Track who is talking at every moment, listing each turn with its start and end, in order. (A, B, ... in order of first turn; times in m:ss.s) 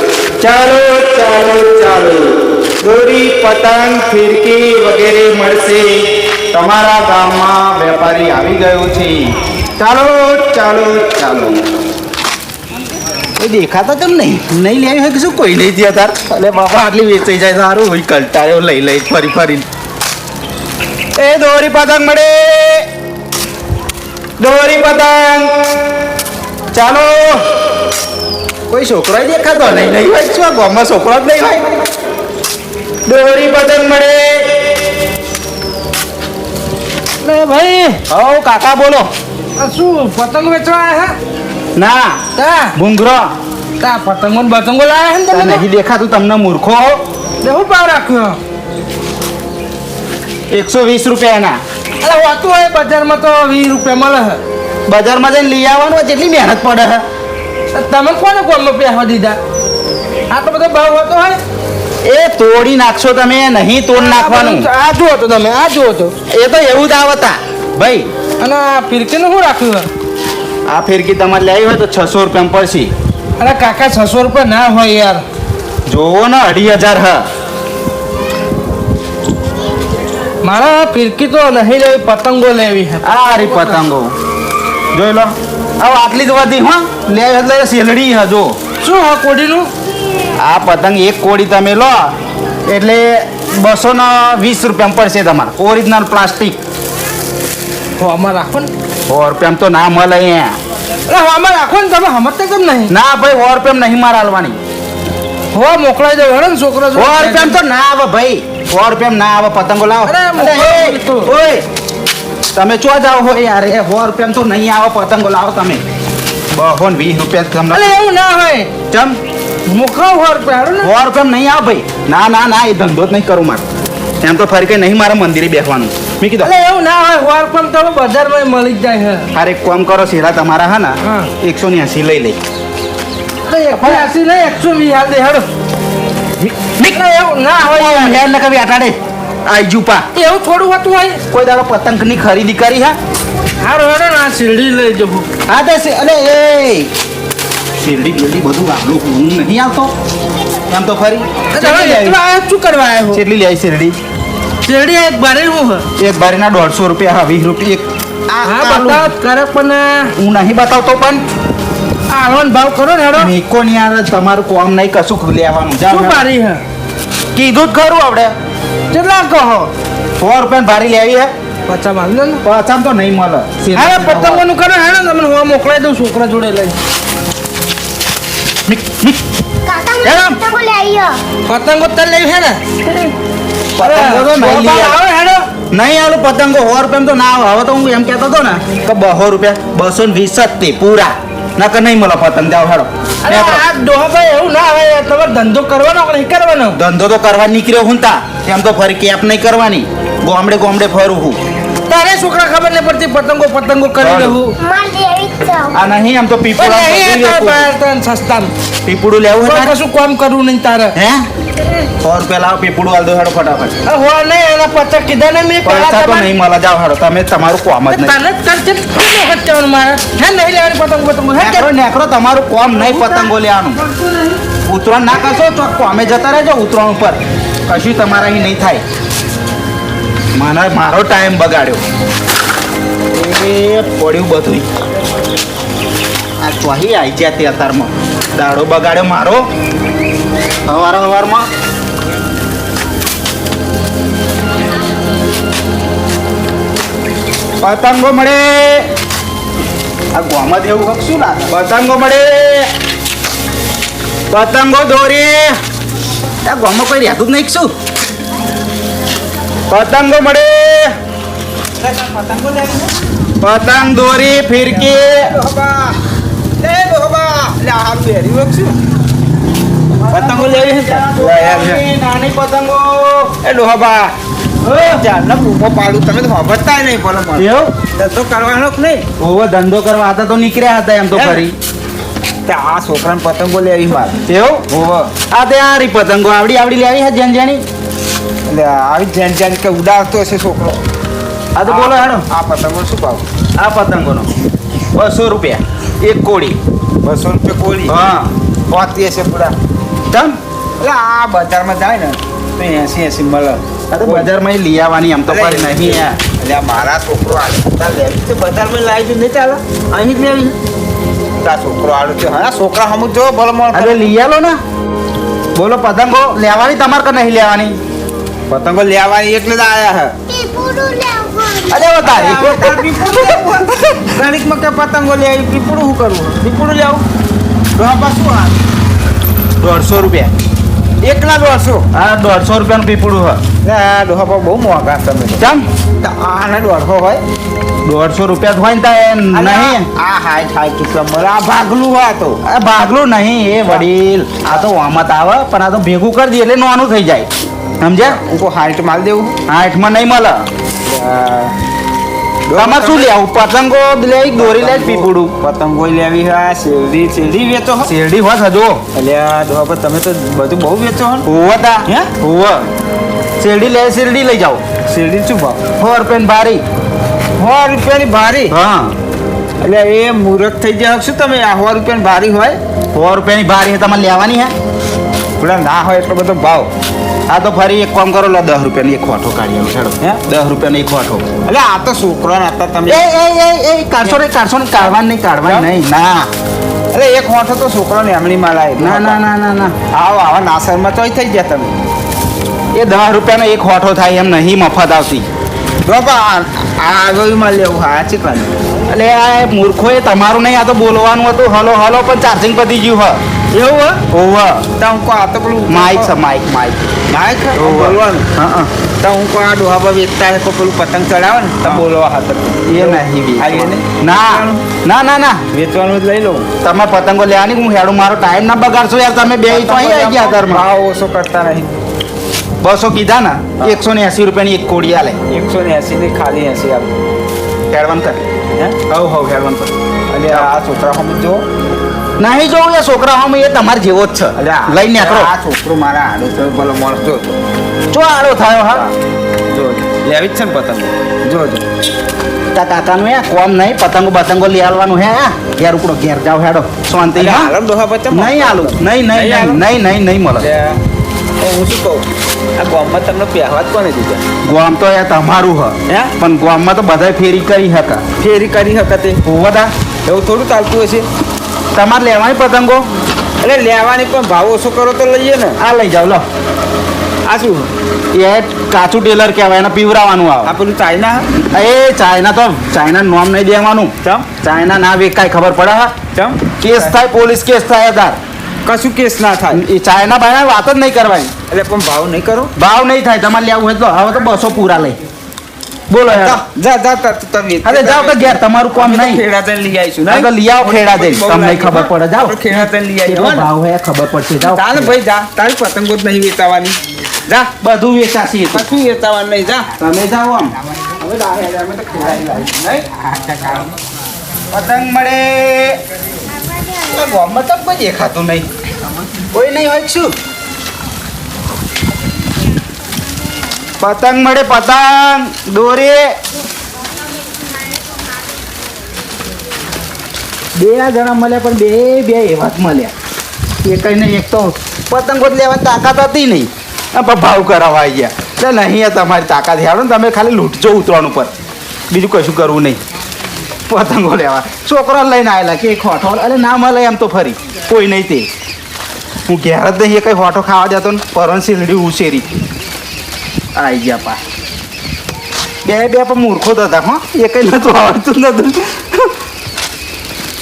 0:00.4-0:11.6 A
0:13.4-0:19.7 A
0:21.2-0:22.9 A
0:24.4-0:25.6 A
0:26.7-0:27.4 A
0:28.7-0:31.9 A
0:33.1-0:34.7 A
0:37.2-0:38.0 B
0:38.1-0:39.1 A
0:39.6-0:41.2 B
0:41.8-0:43.3 A
0:42.4-0:42.8 B
0:43.8-0:45.6 B
0:45.3-0:47.0 A
0:47.4-0:48.4 B
0:50.5-0:51.6 A
0:52.0-0:54.4 B
0:54.9-0:57.1 A
0:57.7-0:59.4 B
1:00.3-1:01.4 B
1:02.0-1:04.7 A
1:04.0-1:06.1 B
1:06.3-1:08.1 A
1:08.4-1:09.9 B
1:10.7-1:12.9 A
1:13.4-1:15.2 B
1:15.9-1:17.3 A
1:20.4-1:23.8 B
1:23.0-1:24.1 A
1:24.9-1:28.6 A
1:28.8-1:29.7 B
1:30.4-1:32.1 A
1:32.7-1:36.6 A
1:38.0-1:38.7 B
1:39.1-1:40.6 A
1:41.1-1:42.9 B
1:42.9-1:44.6 A
1:45.5-1:47.6 B
1:46.9-1:51.6 A
1:50.1-1:51.3 B
1:52.6-1:55.8 A
1:56.6-1:58.0 A
1:57.7-1:58.7 B
1:58.9-1:59.2 A
1:59.7-2:00.9 B
2:00.8-2:03.6 A
2:04.2-2:06.5 A
2:06.4-2:09.3 B
2:09.3-2:12.4 A
2:11.0-2:11.3 B
2:13.5-2:15.5 B
2:13.8-2:14.1 A
2:16.4-2:17.0 A
2:16.8-2:18.2 B
2:17.6-2:20.1 A
2:20.1-2:21.2 B
2:21.3-2:23.0 A
2:23.6-2:25.3 B
2:25.5-2:26.9 A
2:27.8-2:29.9 A
2:30.7-2:32.2 A
2:31.5-2:33.2 B
2:33.1-2:34.0 A
2:34.6-2:35.9 B
2:36.0-2:39.1 A
2:38.4-2:40.1 B
2:40.2-2:41.2 A
2:42.1-2:43.3 B
2:43.2-2:46.2 A
2:45.9-2:46.6 B
2:47.4-2:48.3 A
2:48.9-2:49.7 B
2:50.2-2:51.3 A
2:51.7-2:52.4 B
2:52.4-2:54.4 A
2:53.7-2:56.8 B
2:58.7-2:59.2 A
2:59.7-3:01.2 C
3:00.0-3:00.4 A
3:01.5-3:03.1 B
3:03.8-3:05.0 A
3:03.8-3:05.5 B
3:05.7-3:13.7 A
3:13.2-3:16.8 B
3:16.7-3:21.4 A
3:21.9-3:24.5 B
3:24.0-3:24.4 A
3:24.6-3:25.8 C
3:25.7-3:27.7 A
3:26.6-3:28.5 B
3:28.9-3:29.8 A
3:29.4-3:31.0 B
3:31.0-3:31.3 A
3:32.0-3:33.8 A
3:33.9-3:36.3 B
3:35.6-3:38.2 A
3:37.9-3:41.7 B
3:41.4-3:43.8 A
3:42.8-3:44.4 B
3:44.7-3:48.8 A
3:50.4-3:51.8 A
3:53.1-3:54.7 A
3:56.4-3:59.5 A
4:00.7-4:01.5 A
4:07.6-4:08.9 A
4:10.1-4:12.7 A
4:14.3-4:15.6 A
4:16.4-4:17.7 A
4:19.7-4:21.0 A
4:21.8-4:22.9 D
4:23.4-4:25.3 A
4:24.7-4:26.0 D
4:26.6-4:28.8 D
4:29.9-4:33.4 A
4:30.1-4:31.8 D
4:33.4-4:34.1 D
4:34.6-4:35.0 A
4:34.9-4:39.1 D
4:37.4-4:37.7 A
4:39.2-4:41.5 A
4:41.1-4:41.4 D
4:42.5-4:45.1 D
4:44.3-4:44.7 A
4:45.3-4:47.6 A
4:48.5-4:50.8 D
4:51.6-4:52.3 A
4:51.7-4:53.2 D
4:53.6-4:54.3 A
4:54.9-4:56.6 A
4:57.0-4:58.0 D
4:57.9-4:58.3 A
4:58.7-4:59.6 D
5:00.1-5:00.4 A
5:00.8-5:04.3 D
5:03.9-5:06.2 A
5:05.3-5:10.6 D
5:11.4-5:14.1 D
5:13.7-5:14.6 A
5:15.6-5:17.8 A
5:18.5-5:20.2 D
5:20.3-5:22.0 C
5:21.7-5:24.1 A
5:22.0-5:27.0 D
5:27.8-5:28.5 D
5:29.6-5:30.3 A
5:31.0-5:31.8 D
5:31.9-5:33.5 A
5:33.6-5:35.4 D
5:35.4-5:35.7 A
5:36.0-5:37.2 D
5:37.8-5:39.9 A
5:39.3-5:42.4 D
5:42.5-5:47.3 A
5:47.8-5:48.2 A
5:48.0-5:49.4 D
5:49.5-5:50.4 A
5:50.9-5:51.6 D
5:52.5-5:53.1 D
5:52.5-5:55.3 A
5:54.4-5:57.9 D
5:57.9-5:58.8 A
5:58.9-6:01.2 D
6:01.2-6:02.7 A
6:01.9-6:02.1 D
6:03.4-6:04.6 A
6:04.9-6:05.6 D
6:05.8-6:06.6 A
6:07.4-6:08.6 D
6:08.5-6:09.0 A
6:09.6-6:12.6 D
6:13.0-6:14.5 A
6:15.4-6:16.7 D
6:17.3-6:21.3 A
6:21.5-6:23.1 D
6:22.9-6:26.3 A
6:25.4-6:25.7 D
6:26.9-6:29.2 D
6:28.8-6:29.8 A
6:29.9-6:31.7 D
6:32.8-6:35.3 A
6:35.9-6:38.6 D
6:38.9-6:44.7 A
6:43.6-6:44.0 D
6:44.8-6:46.1 D
6:45.7-6:46.9 A
6:47.1-6:48.3 D
6:47.6-6:48.7 A
6:49.0-6:54.6 D
6:52.7-6:55.4 A
6:55.5-6:56.5 D
6:56.6-7:00.7 A
6:59.3-7:01.7 D
7:02.6-7:05.2 A
7:05.3-7:07.0 D
7:07.7-7:08.3 A
7:08.9-7:09.7 A
7:10.1-7:11.4 D
7:12.2-7:15.3 A
7:14.4-7:17.4 D
7:17.9-7:18.9 A
7:19.5-7:21.7 D
7:22.6-7:27.5 A
7:27.2-7:29.6 D
7:28.1-7:30.5 A
7:30.4-7:30.8 D
7:31.4-7:32.1 D
7:32.6-7:34.2 D
7:34.4-7:38.1 A
7:35.9-7:36.1 D
7:38.2-7:39.2 D
7:39.2-7:39.7 A
7:40.1-7:41.1 D
7:41.8-7:42.9 A
7:43.4-7:45.6 D
7:45.6-7:46.3 A
7:47.3-7:47.7 D
7:48.1-7:50.6 A
7:50.4-7:51.3 D
7:51.4-7:56.0 A
7:54.0-7:54.3 D
7:56.1-7:56.9 D
7:56.6-7:58.2 A
7:58.7-7:59.6 D
7:59.5-8:01.3 A
8:01.5-8:02.5 D
8:02.6-8:05.0 A
8:05.9-8:06.4 A
8:06.1-8:13.5 D
8:07.6-8:09.2 A
8:10.1-8:12.4 A
8:13.0-8:15.0 A
8:14.4-8:16.8 D
8:17.6-8:18.7 A
8:18.5-8:19.7 D
8:19.8-8:20.5 A
8:21.0-8:23.7 D
8:24.5-8:25.8 A
8:26.9-8:28.5 A
8:29.3-8:30.1 A
8:33.8-8:36.2 A
8:40.6-8:42.9 A
8:43.6-8:51.3 A
8:51.9-8:52.8 A
8:53.7-8:58.3 A
8:59.3-9:02.3 A
9:03.6-9:04.2 A
9:05.6-9:09.1 A